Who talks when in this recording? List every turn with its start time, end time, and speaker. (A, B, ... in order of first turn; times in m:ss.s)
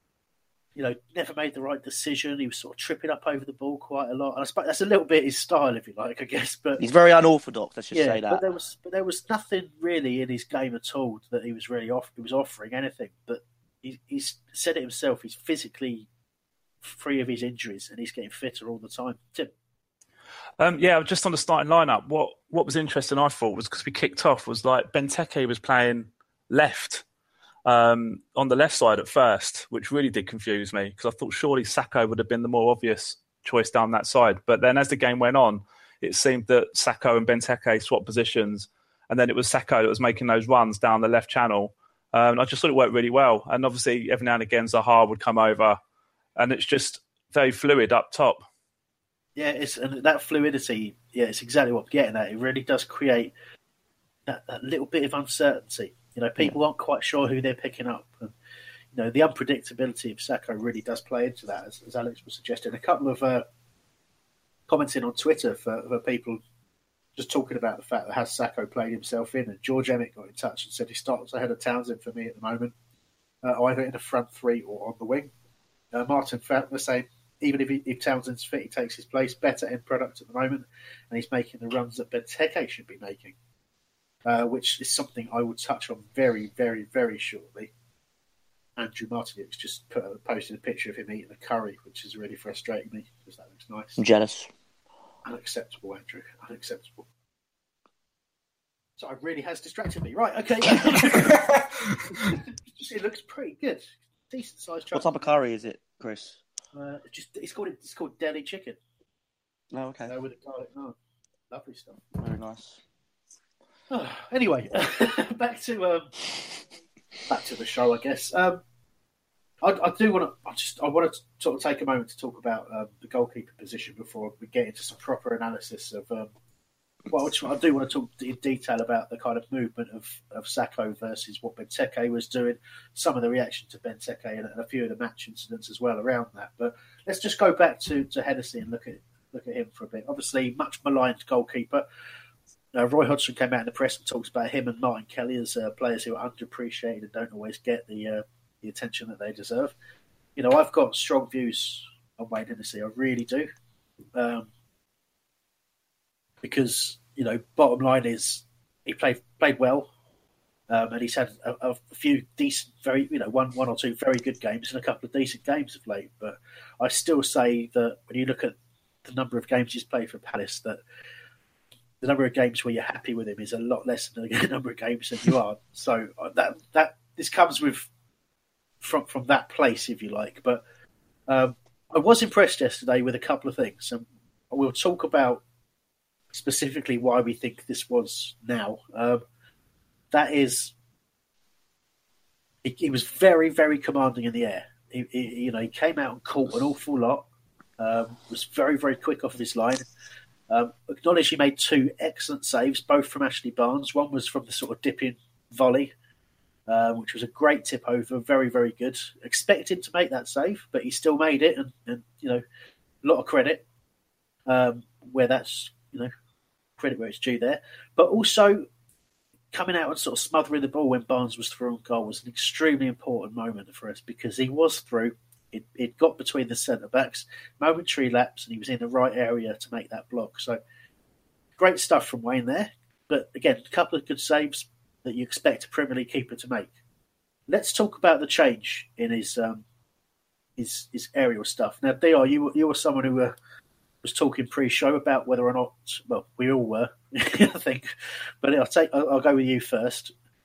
0:00.8-0:06.8 A
0:06.8-0:08.4 B
0:07.9-0:16.1 A
0:16.8-0:19.5 A
0:20.6-0:27.0 C
0:27.6-0:45.8 C
0:46.4-0:48.4 C
0:49.4-0:53.3 A
0:54.3-0:58.3 A
0:58.9-1:03.4 A
1:04.7-1:06.4 A
1:07.2-1:12.7 A
1:13.4-1:15.3 A
1:15.9-1:23.4 A
1:24.2-1:27.7 A
1:28.8-1:34.0 A
1:34.0-1:34.5 B
1:35.2-1:37.1 A
1:39.0-1:41.5 A
1:42.1-1:45.0 A
1:44.9-1:46.4 B
1:46.7-1:48.8 A
1:49.7-1:50.1 B
1:50.1-1:50.9 A
1:51.5-1:52.0 A
1:52.1-1:52.8 B
1:53.9-1:56.1 A
1:57.3-1:58.6 A
1:59.6-2:06.3 A
2:07.1-2:21.8 A
2:22.7-2:29.7 A
2:30.4-2:33.5 A
2:34.2-2:34.5 A
2:36.4-2:39.9 A
2:40.7-2:48.5 A
2:49.0-2:50.8 A
2:52.0-2:57.9 A
2:58.8-3:00.6 A
3:01.3-3:05.4 A
3:06.3-3:09.2 A
3:10.1-3:10.7 A
3:12.6-3:17.2 A
3:17.8-3:19.8 A
3:20.5-3:25.9 A
3:26.7-3:32.4 A
3:33.0-3:33.6 A
3:34.5-3:36.1 A
3:36.8-3:38.7 A
3:39.5-3:50.6 A
3:51.6-3:56.7 A
3:57.5-3:59.6 A
4:00.6-4:03.3 A
4:04.0-4:07.9 A
4:08.4-4:10.1 A